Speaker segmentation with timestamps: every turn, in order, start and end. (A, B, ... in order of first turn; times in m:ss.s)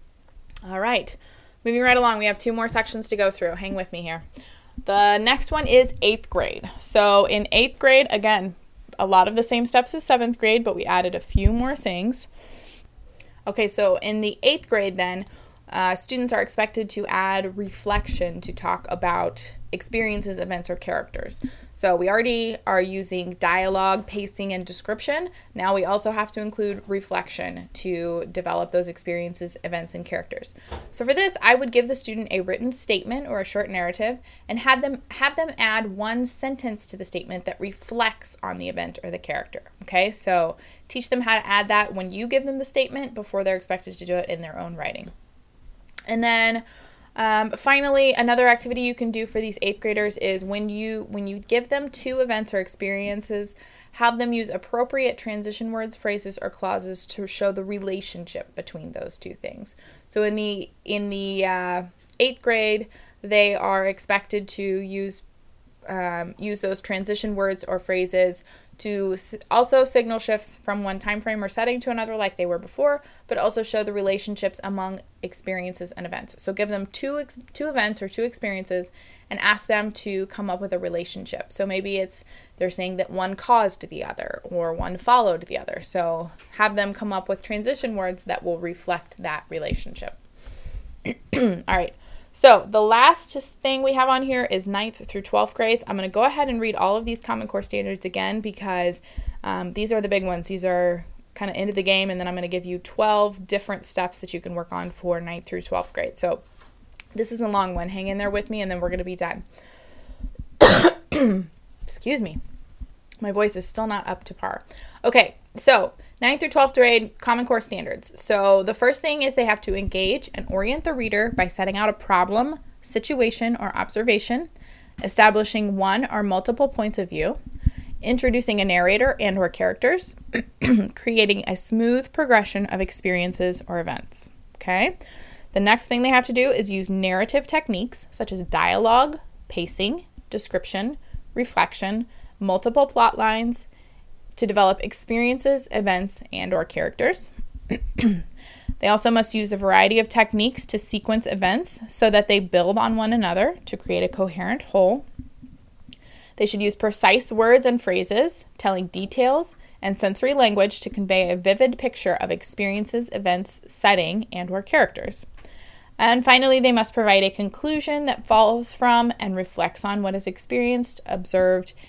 0:00.6-0:04.2 A
0:04.8-0:12.3 A
0:13.4-0:45.1 A
0:46.1-0:46.6 A
0:47.2-1:05.2 A
1:05.8-1:30.2 A
1:31.0-1:46.4 A
1:47.1-1:49.4 A
1:50.6-1:52.4 A
1:53.2-2:04.5 A
2:05.0-2:07.4 A
2:08.0-2:15.0 A
2:15.5-2:23.7 A
2:24.4-2:28.2 A
2:28.8-2:35.0 A
2:36.4-2:45.3 A
2:46.0-2:51.7 A